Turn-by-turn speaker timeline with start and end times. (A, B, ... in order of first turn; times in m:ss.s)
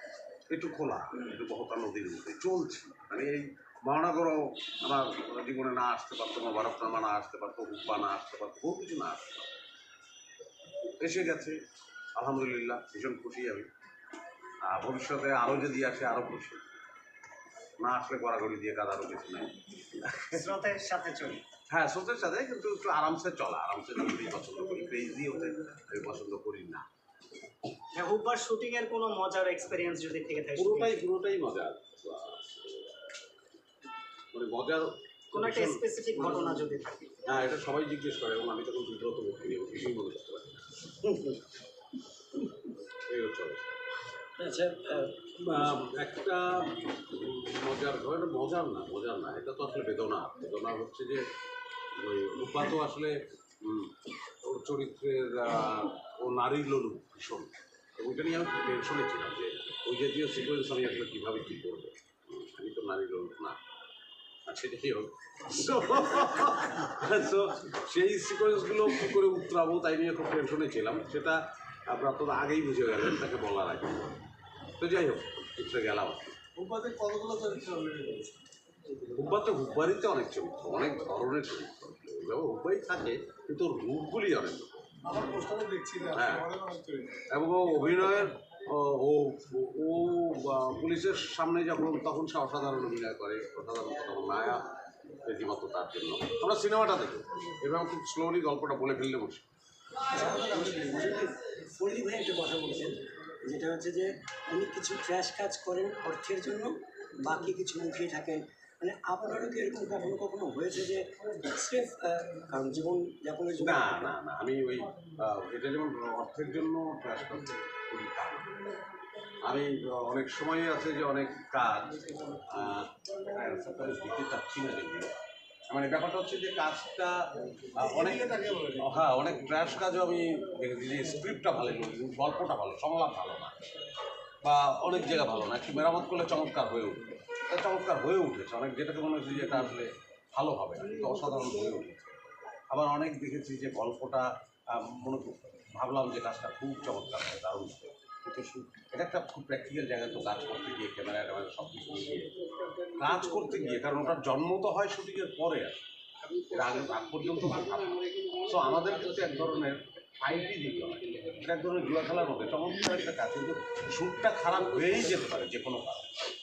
0:00.5-0:09.5 A
0:11.0-0:11.6 A
0:12.2-0:13.7 A
0:14.6-0:16.6 A
0:17.8-0:20.4 A
0:20.3-0:21.4 B
0:21.7-0:26.8 A
0:27.9-0:31.0 B
0:30.6-0:33.1 A
0:34.3-0:36.7 A
0:35.3-0:37.1 B
0:37.2-0:40.9 A
0:41.1-0:41.4 C
0:43.1-0:43.8 A
0:44.4-0:45.2 C
0:45.0-0:51.2 A
0:52.0-0:53.9 A
0:54.4-1:03.6 A
1:04.5-1:14.2 A
1:14.8-1:16.4 A
1:16.6-1:18.4 D
1:19.1-1:25.0 A
1:25.1-1:27.2 D
1:26.1-1:26.5 A
1:27.2-1:39.4 A
1:40.1-1:54.1 C
1:53.6-1:58.5 A
1:59.4-2:05.1 A
2:05.7-2:13.6 A
2:07.9-2:08.8 D
2:14.4-2:46.2 A